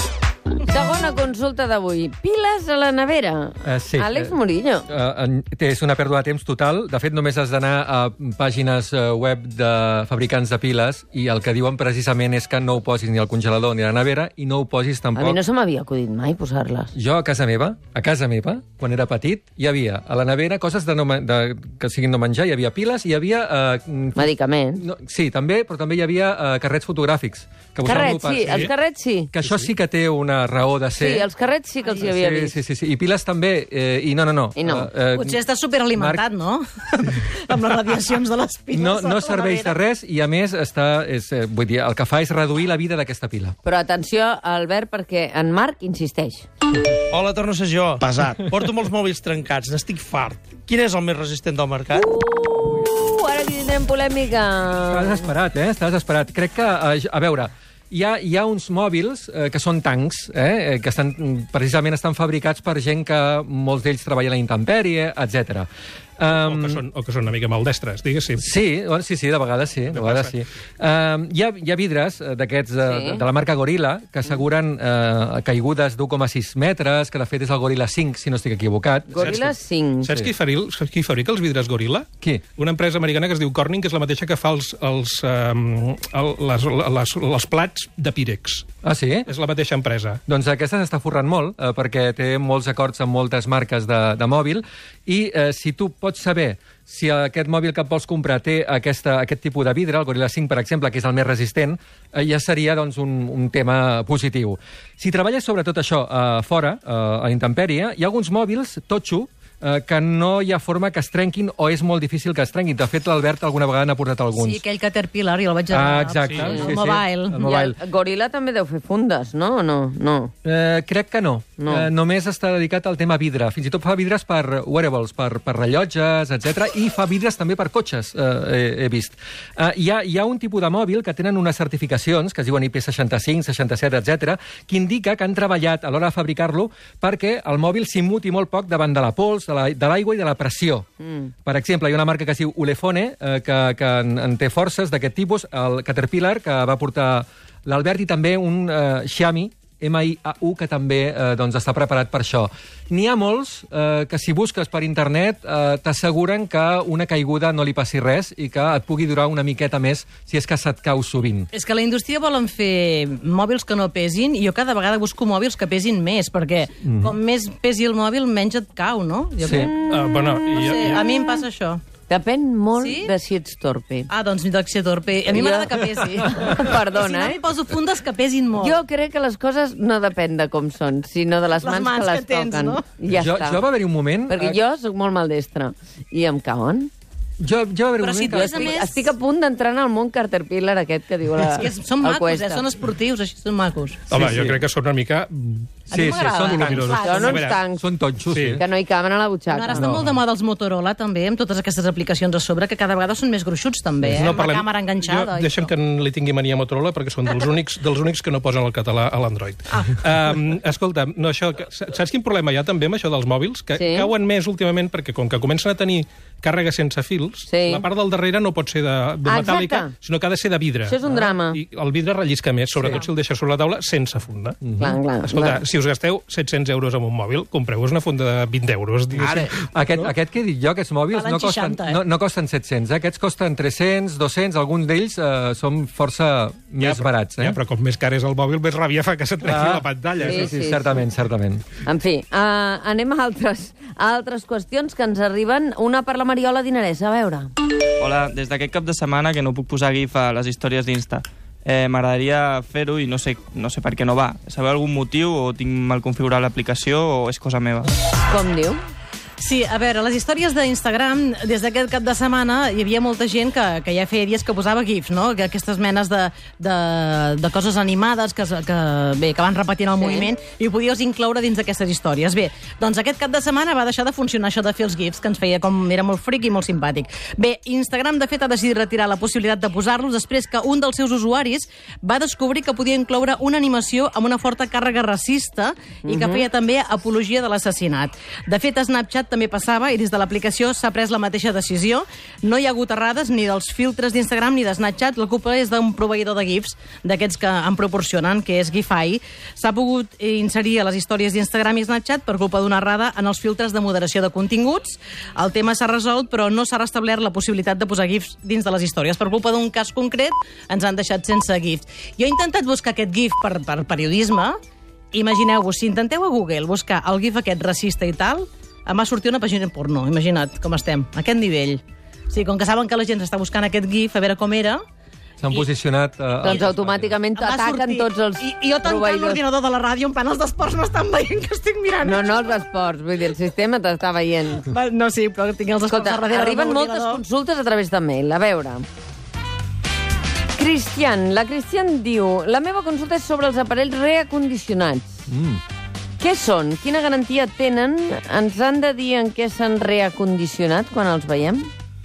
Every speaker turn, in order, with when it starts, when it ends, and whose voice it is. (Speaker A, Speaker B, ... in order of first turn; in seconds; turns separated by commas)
Speaker A: 0.7-4.9, Speaker B: 3.6-15.4, Speaker A: 15.2-16.9, Speaker B: 16.9-28.7, Speaker A: 24.2-24.8, Speaker A: 27.8-29.3, Speaker C: 28.5-28.7, Speaker B: 29.4-31.3, Speaker C: 29.4-29.7, Speaker A: 31.0-32.6, Speaker B: 31.9-35.4, Speaker A: 34.6-34.9, Speaker D: 35.1-39.8, Speaker B: 36.0-36.2, Speaker B: 38.7-43.6, Speaker A: 43.6-46.5, Speaker E: 47.1-52.1, Speaker A: 52.0-55.3, Speaker B: 54.9-65.7, Speaker B: 66.2-66.8, Speaker C: 66.3-68.5, Speaker B: 68.4-79.5, Speaker C: 69.9-70.3, Speaker A: 72.8-73.2, Speaker A: 79.1-80.1, Speaker C: 80.0-88.7, Speaker B: 88.8-89.3, Speaker C: 89.3-90.2, Speaker B: 90.3-114.6, Speaker D: 114.3-117.5, Speaker B: 115.7-117.8, Speaker C: 116.3-116.5, Speaker A: 117.4-120.3, Speaker B: 120.4-140.9, Speaker A: 121.6-121.9, Speaker A: 141.0-141.3, Speaker B: 141.4-161.5, Speaker D: 161.5-169.8, Speaker B: 166.8-167.2, Speaker B: 169.4-169.7, Speaker A: 169.6-171.4, Speaker C: 169.8-171.0, Speaker D: 170.5-171.8, Speaker A: 172.1-174.1, Speaker D: 172.8-173.1, Speaker D: 174.1-178.8, Speaker A: 175.3-177.4, Speaker A: 178.6-183.6, Speaker D: 181.6-182.9, Speaker B: 183.1-184.6, Speaker A: 184.3-186.9, Speaker B: 187.4-188.8, Speaker D: 188.0-189.1, Speaker A: 188.3-192.6, Speaker D: 191.5-194.1, Speaker C: 194.1-197.6, Speaker B: 194.1-194.7, Speaker D: 195.9-197.5, Speaker B: 195.9-198.6, Speaker A: 197.0-197.8, Speaker C: 198.3-198.6, Speaker A: 198.6-200.0, Speaker D: 199.5-205.7, Speaker B: 199.8-200.1, Speaker C: 204.1-224.6, Speaker D: 209.7-210.0, Speaker A: 213.8-214.1, Speaker A: 217.5-217.8, Speaker A: 219.3-219.9, Speaker A: 220.9-221.6, Speaker B: 222.8-223.0, Speaker B: 224.6-225.0, Speaker A: 224.8-225.6, Speaker C: 225.2-230.1, Speaker B: 229.2-237.6, Speaker D: 231.1-232.0, Speaker C: 236.8-240.5, Speaker B: 239.4-241.7, Speaker A: 240.2-240.9, Speaker A: 241.8-247.5, Speaker F: 248.0-257.9, Speaker A: 258.3-258.8, Speaker D: 259.4-314.6, Speaker A: 270.0-270.3, Speaker A: 286.1-286.5, Speaker D: 315.1-324.8, Speaker B: 325.4-327.1, Speaker A: 326.4-329.4, Speaker D: 327.4-332.3, Speaker A: 332.0-334.7, Speaker D: 334.7-337.2, Speaker A: 335.9-338.9, Speaker A: 340.6-345.2, Speaker B: 345.3-345.6, Speaker A: 346.2-351.7